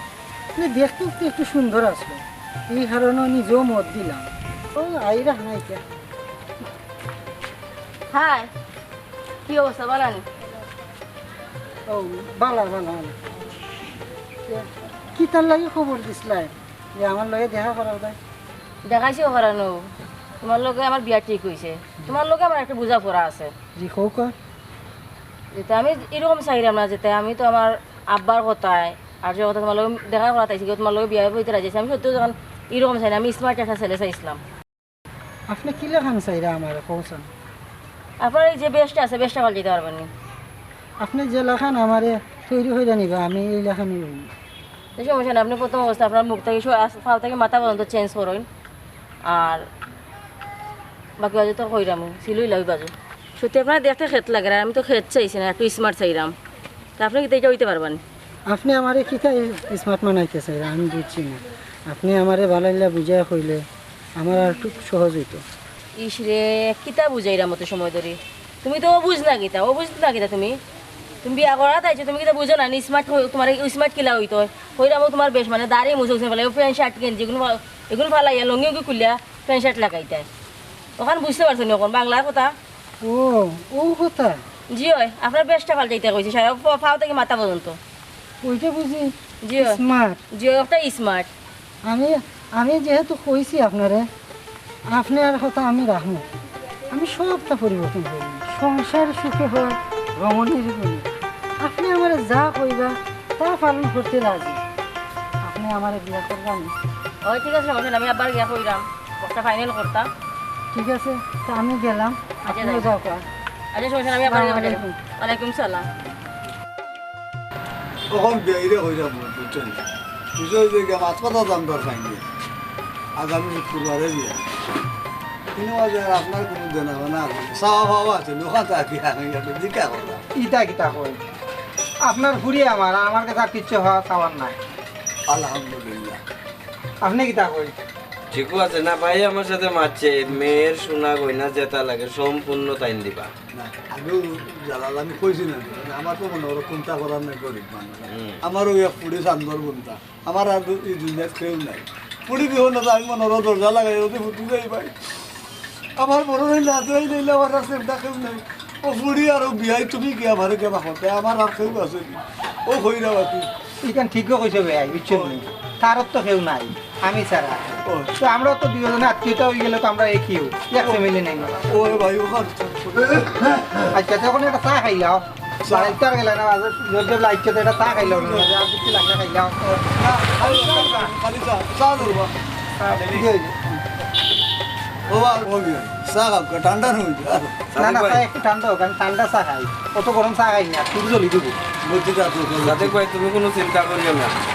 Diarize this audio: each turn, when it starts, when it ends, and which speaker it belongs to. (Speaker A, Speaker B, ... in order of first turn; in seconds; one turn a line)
Speaker A: 0.6-5.8
Speaker B: 8.1-8.5
Speaker B: 9.5-10.2
Speaker A: 11.9-13.2
Speaker A: 14.4-18.2
Speaker B: 18.9-19.8
Speaker B: 20.4-23.5
Speaker A: 23.8-24.3
Speaker B: 25.5-34.4
Speaker A: 35.5-37.3
Speaker B: 38.2-40.1
Speaker A: 41.0-44.3
Speaker B: 45.0-48.5
Speaker B: 49.2-49.6
Speaker B: 51.2-56.3
Speaker B: 57.0-58.0
Speaker A: 58.5-63.6
Speaker A: 64.2-65.4
Speaker B: 66.0-70.6
Speaker B: 71.2-80.3
Speaker B: 81.0-82.5
Speaker A: 83.0-84.4
Speaker B: 84.7-87.8
Speaker A: 88.4-90.2
Speaker B: 89.4-89.8
Speaker B: 90.3-91.3
Speaker A: 91.8-94.1
Speaker A: 94.9-96.2
Speaker A: 96.9-101.1
Speaker A: 101.6-104.6
Speaker A: 105.4-106.7
Speaker B: 107.2-110.1
Speaker A: 110.7-113.2
Speaker B: 112.5-112.9
Speaker B: 113.7-115.8
Speaker A: 114.2-115.0
Speaker C: 118.1-119.8
Speaker C: 120.4-122.2
Speaker C: 123.2-124.4
Speaker C: 125.5-130.2
Speaker D: 130.3-131.2
Speaker D: 132.0-134.6
Speaker C: 135.3-136.2
Speaker D: 137.0-137.7
Speaker E: 138.3-143.3
Speaker C: 143.5-154.9
Speaker E: 148.1-148.4
Speaker C: 156.0-163.5
Speaker D: 163.8-172.0
Speaker C: 165.1-165.4
Speaker C: 167.8-168.1
Speaker C: 170.8-174.0
Speaker D: 173.9-181.1
Speaker C: 175.6-176.0
Speaker C: 177.8-178.6
Speaker C: 179.9-182.3
Speaker D: 182.8-183.6
Speaker C: 182.9-183.3
Speaker C: 185.1-187.6
Speaker E: 187.7-188.2
Speaker D: 187.8-191.6
Speaker C: 191.8-193.0
Speaker E: 192.6-194.3